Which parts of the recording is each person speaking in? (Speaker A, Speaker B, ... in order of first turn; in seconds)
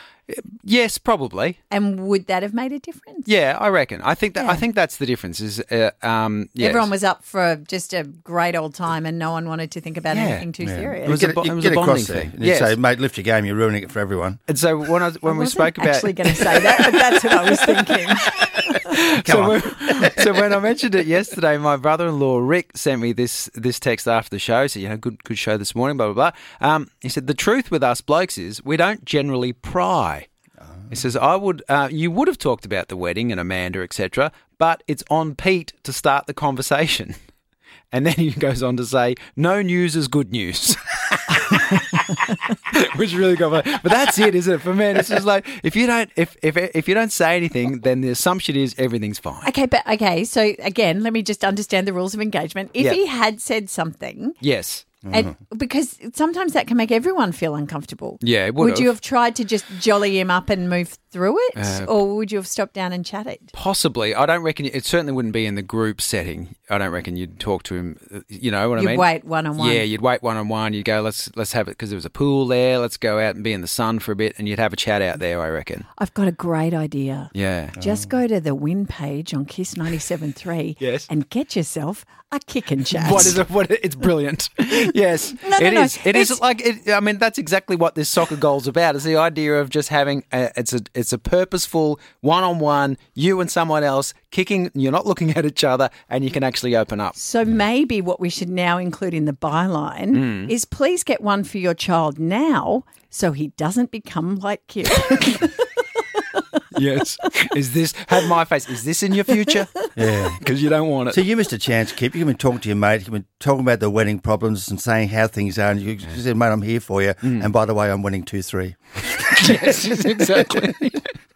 Speaker A: 0.3-1.6, 3.2-6.9, 10.1-10.5, 11.0-12.8, 14.5-30.3, 30.9-37.1, 37.9-49.5, 54.4-54.9, 58.2-58.9, 61.5-61.9, 63.5-75.9, 77.3-77.8, 80.8-81.1, 82.9-97.2, 100.1-100.5, 106.7-109.9, 110.4-111.2, 119.3-121.1
Speaker B: 1.7-3.3, 4.4-4.6, 6.6-11.2, 15.2-19.0, 49.4-54.4, 55.1-63.5, 68.8-69.8, 76.0-83.4, 85.4-86.4, 97.2-105.7
Speaker C: 10.6-14.4, 19.2-19.7, 55.0-55.3, 110.0-110.4, 111.1-119.6